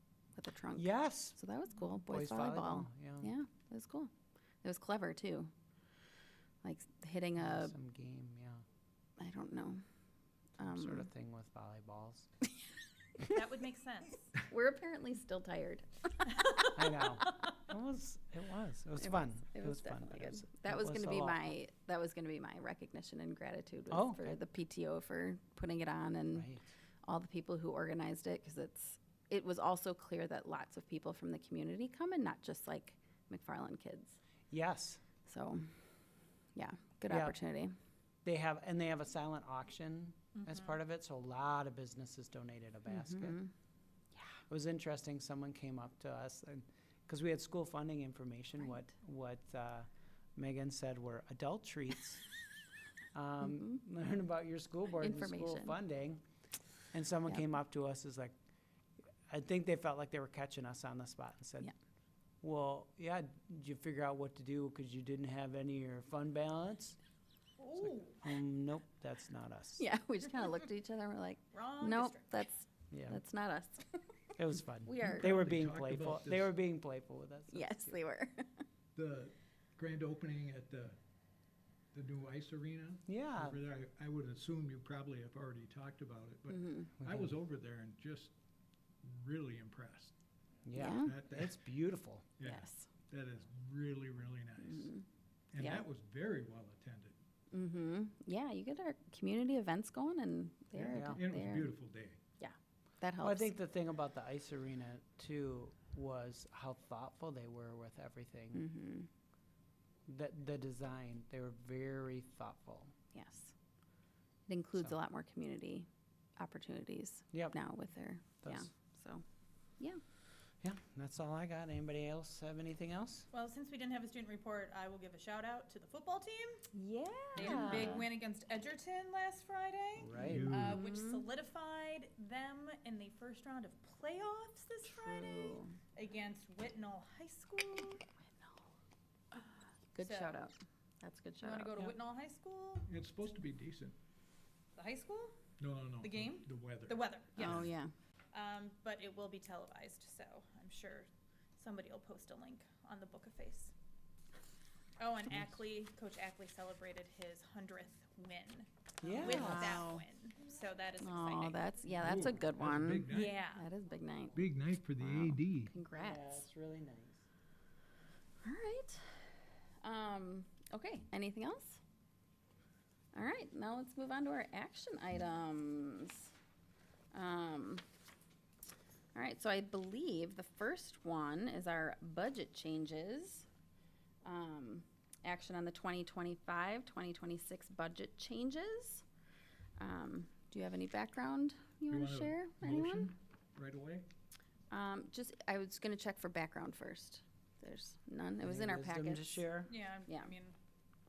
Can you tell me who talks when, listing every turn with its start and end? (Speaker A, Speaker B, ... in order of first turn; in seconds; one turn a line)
Speaker A: 0.3-4.1
Speaker B: 0.7-3.3
Speaker A: 4.6-5.5
Speaker A: 6.6-7.7
Speaker B: 7.4-8.6
Speaker A: 9.2-9.8
Speaker B: 10.6-12.3
Speaker A: 10.6-11.0
Speaker C: 13.2-14.3
Speaker A: 14.5-15.9
Speaker B: 16.7-21.6
Speaker A: 19.5-26.4
Speaker B: 23.9-24.4
Speaker B: 26.3-26.7
Speaker A: 27.0-34.2
Speaker B: 34.5-35.0
Speaker A: 35.2-35.7
Speaker A: 36.5-37.7
Speaker B: 37.1-37.4
Speaker B: 38.2-43.4
Speaker C: 40.3-40.8
Speaker B: 44.5-52.3
Speaker B: 53.1-56.2
Speaker A: 55.0-55.7
Speaker B: 56.9-58.3
Speaker B: 59.3-61.7
Speaker B: 62.4-67.0
Speaker C: 67.6-68.2
Speaker B: 67.8-69.9
Speaker A: 69.8-74.3
Speaker C: 71.5-72.5
Speaker B: 72.9-73.2
Speaker B: 74.4-78.0
Speaker A: 74.9-75.3
Speaker D: 75.0-76.5
Speaker A: 77.5-78.6
Speaker D: 78.9-81.0
Speaker D: 81.9-88.3
Speaker B: 83.1-83.6
Speaker A: 86.5-86.8
Speaker B: 87.0-87.3
Speaker D: 89.0-90.1
Speaker B: 90.7-92.3
Speaker D: 90.7-91.6
Speaker A: 90.8-91.1
Speaker D: 92.4-97.2
Speaker A: 92.4-92.9
Speaker A: 97.5-101.6
Speaker D: 100.7-102.2
Speaker B: 100.9-101.2
Speaker A: 102.4-103.4
Speaker B: 103.2-108.7
Speaker A: 108.5-109.1
Speaker B: 110.1-112.9
Speaker A: 113.1-113.5
Speaker A: 114.5-119.2
Speaker B: 118.4-118.7
Speaker B: 120.6-123.3
Speaker C: 123.3-126.6
Speaker A: 126.7-127.9
Speaker C: 127.3-138.0
Speaker B: 127.4-127.8
Speaker B: 130.0-130.6
Speaker D: 130.2-130.8
Speaker A: 130.7-131.2
Speaker A: 134.9-135.7
Speaker A: 139.9-141.7
Speaker C: 140.0-140.4
Speaker C: 141.4-142.9
Speaker D: 142.9-143.9
Speaker C: 144.7-145.3
Speaker D: 145.6-147.7
Speaker C: 146.0-147.7
Speaker A: 147.4-147.9
Speaker C: 148.3-153.7
Speaker C: 155.0-161.7
Speaker B: 159.0-159.8
Speaker A: 159.2-160.0
Speaker A: 161.0-164.4
Speaker D: 161.9-163.6
Speaker C: 163.0-163.7
Speaker D: 164.3-165.8
Speaker A: 165.0-166.4
Speaker B: 165.9-167.2
Speaker A: 168.4-171.8
Speaker A: 173.1-176.3
Speaker A: 177.1-177.8
Speaker A: 179.1-183.4
Speaker A: 184.2-189.0
Speaker A: 189.8-193.1
Speaker D: 191.9-194.1
Speaker A: 194.7-199.4
Speaker B: 198.4-199.8
Speaker C: 199.7-200.6
Speaker A: 200.1-200.3